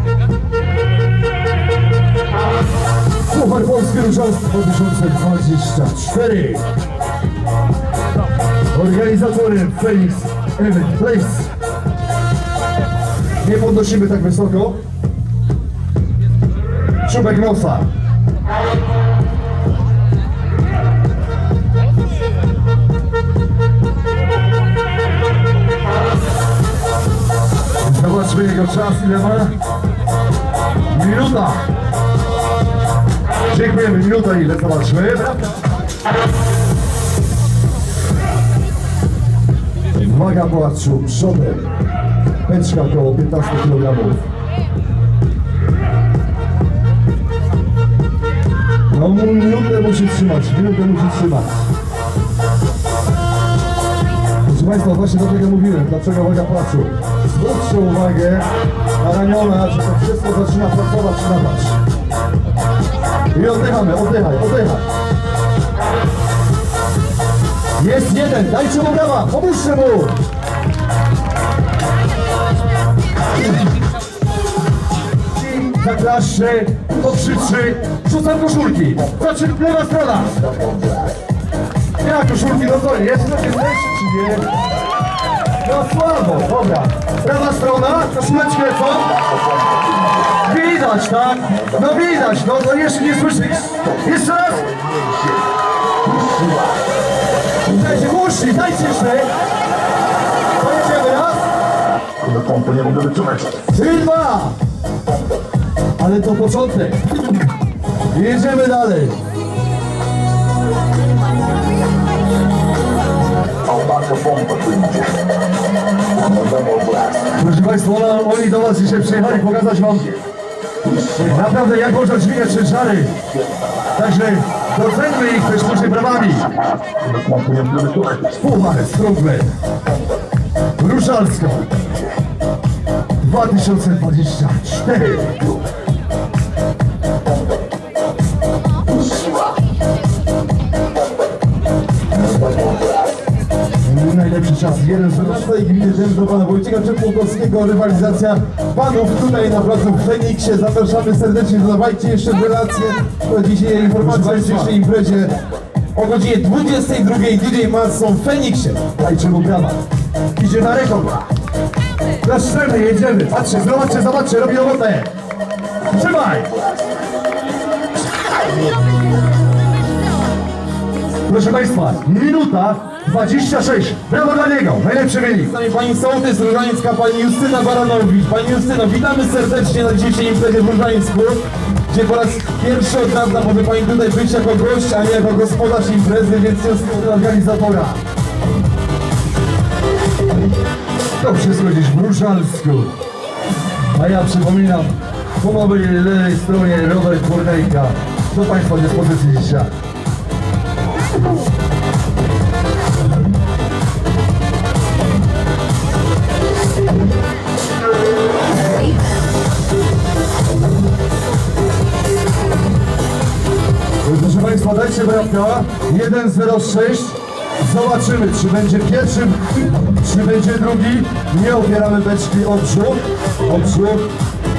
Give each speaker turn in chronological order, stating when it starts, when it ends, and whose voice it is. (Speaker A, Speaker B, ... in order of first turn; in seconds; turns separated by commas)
Speaker A: 3.3-6.6, Speaker A: 8.7-11.5, Speaker A: 13.4-14.8, Speaker A: 17.0-17.9, Speaker A: 27.8-29.5, Speaker A: 30.9-31.6, Speaker A: 33.5-35.5, Speaker A: 39.9-41.7, Speaker A: 42.5-44.2, Speaker A: 48.9-51.5, Speaker A: 54.4-58.5, Speaker A: 59.0-61.8, Speaker A: 63.3-64.8, Speaker A: 67.8-70.1, Speaker A: 75.3-80.4, Speaker A: 82.0-84.4, Speaker A: 85.6-89.2, Speaker B: 89.5-90.0, Speaker A: 90.3-94.8, Speaker B: 96.3-96.6, Speaker A: 97.6-99.3, Speaker A: 100.6-101.4, Speaker B: 102.2-103.6, Speaker A: 103.7-104.5, Speaker A: 106.0-107.0, Speaker A: 108.1-109.2, Speaker B: 113.6-115.2, Speaker B: 116.2-117.2, Speaker A: 117.3-120.2, Speaker A: 121.1-123.2, Speaker A: 123.9-126.5, Speaker B: 127.0-128.3, Speaker A: 128.3-129.5, Speaker A: 130.8-131.8, Speaker A: 133.2-135.6, Speaker A: 143.8-145.5, Speaker C: 145.1-155.4, Speaker A: 153.9-154.7, Speaker C: 155.9-158.8, Speaker A: 159.0-159.8, Speaker A: 160.4-161.2, Speaker A: 162.2-165.1, Speaker A: 165.9-166.5, Speaker A: 171.3-175.5, Speaker C: 175.3-187.0, Speaker A: 186.8-188.0, Speaker A: 191.2-192.9, Speaker A: 193.9-199.7, Speaker A: 214.0-224.1